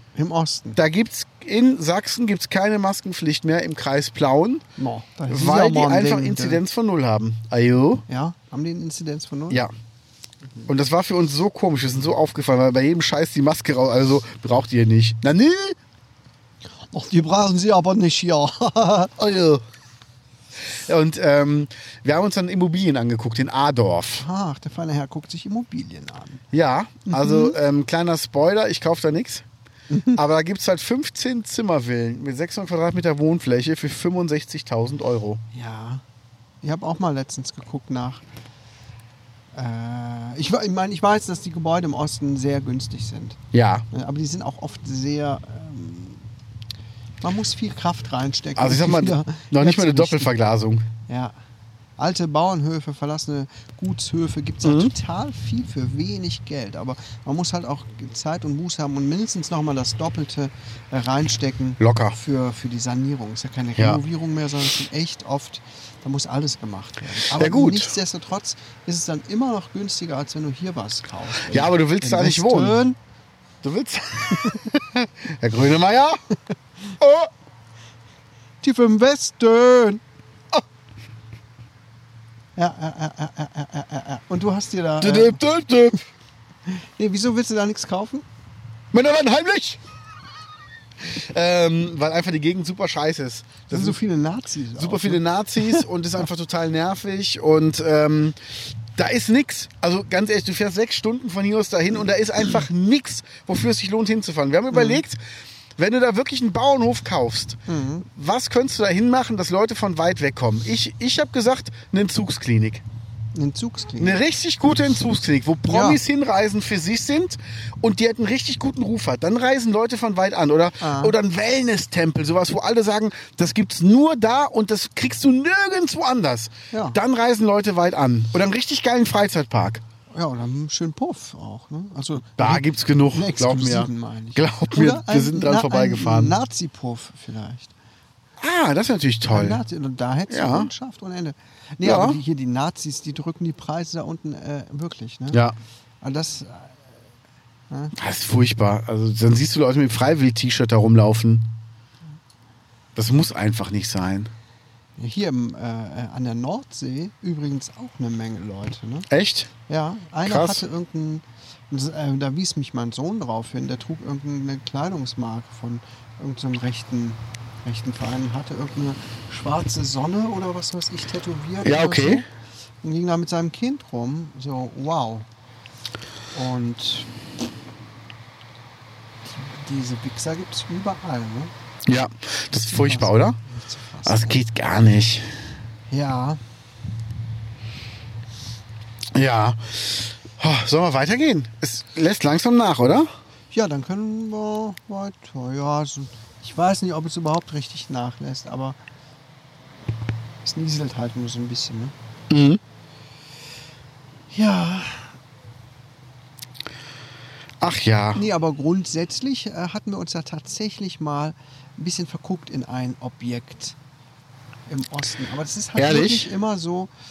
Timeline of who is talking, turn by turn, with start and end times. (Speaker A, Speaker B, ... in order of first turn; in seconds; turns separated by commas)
Speaker A: 0.2-0.8, Speaker B: 0.8-4.7, Speaker A: 4.8-6.6, Speaker B: 5.3-8.1, Speaker A: 8.1-9.6, Speaker B: 10.7-15.8, Speaker A: 16.9-19.1, Speaker B: 19.2-19.6, Speaker B: 20.7-24.2, Speaker A: 24.2-26.4, Speaker B: 26.5-29.4, Speaker A: 27.1-27.6, Speaker A: 29.9-30.2, Speaker B: 30.1-35.4, Speaker A: 35.5-36.0, Speaker A: 36.6-38.2, Speaker A: 39.5-43.4, Speaker B: 43.5-43.9, Speaker A: 43.9-46.3, Speaker A: 47.2-50.3, Speaker B: 48.6-50.9, Speaker A: 51.1-51.4, Speaker A: 52.0-73.0, Speaker B: 54.6-54.9, Speaker B: 61.8-62.2, Speaker B: 67.3-67.9, Speaker B: 71.4-72.8, Speaker B: 73.6-76.2, Speaker A: 74.3-74.6, Speaker B: 77.0-77.3, Speaker A: 78.6-80.0, Speaker A: 82.6-85.4, Speaker B: 85.0-86.0, Speaker A: 86.7-88.2, Speaker B: 88.9-89.8, Speaker B: 91.0-94.0, Speaker A: 93.7-95.8, Speaker B: 94.8-98.4, Speaker B: 98.9-105.2, Speaker A: 104.7-105.0, Speaker B: 105.8-107.6, Speaker A: 107.7-108.1, Speaker B: 108.1-112.8, Speaker A: 113.3-114.2, Speaker B: 114.0-129.8, Speaker A: 115.7-116.0, Speaker A: 120.8-121.2, Speaker A: 126.7-127.0, Speaker A: 130.1-137.7, Speaker B: 132.4-136.3, Speaker B: 138.4-139.6, Speaker A: 139.3-145.4, Speaker B: 140.3-140.7, Speaker B: 141.8-142.2, Speaker A: 146.0-146.8, Speaker A: 147.7-147.9, Speaker B: 148.0-151.5, Speaker B: 152.9-154.3, Speaker A: 155.0-159.1, Speaker B: 159.1-159.5, Speaker A: 159.7-172.3, Speaker B: 160.2-160.6, Speaker B: 171.6-172.2, Speaker A: 172.8-175.3, Speaker A: 176.3-177.1, Speaker A: 179.2-181.5, Speaker B: 181.9-183.4, Speaker A: 182.6-184.4, Speaker B: 184.1-185.3, Speaker A: 185.9-186.4, Speaker B: 189.1-193.1, Speaker A: 193.5-198.8, Speaker A: 200.4-201.9, Speaker B: 202.3-202.6, Speaker A: 204.3-205.2, Speaker B: 207.6-208.2, Speaker A: 208.2-213.8, Speaker A: 214.7-216.9, Speaker B: 215.8-216.3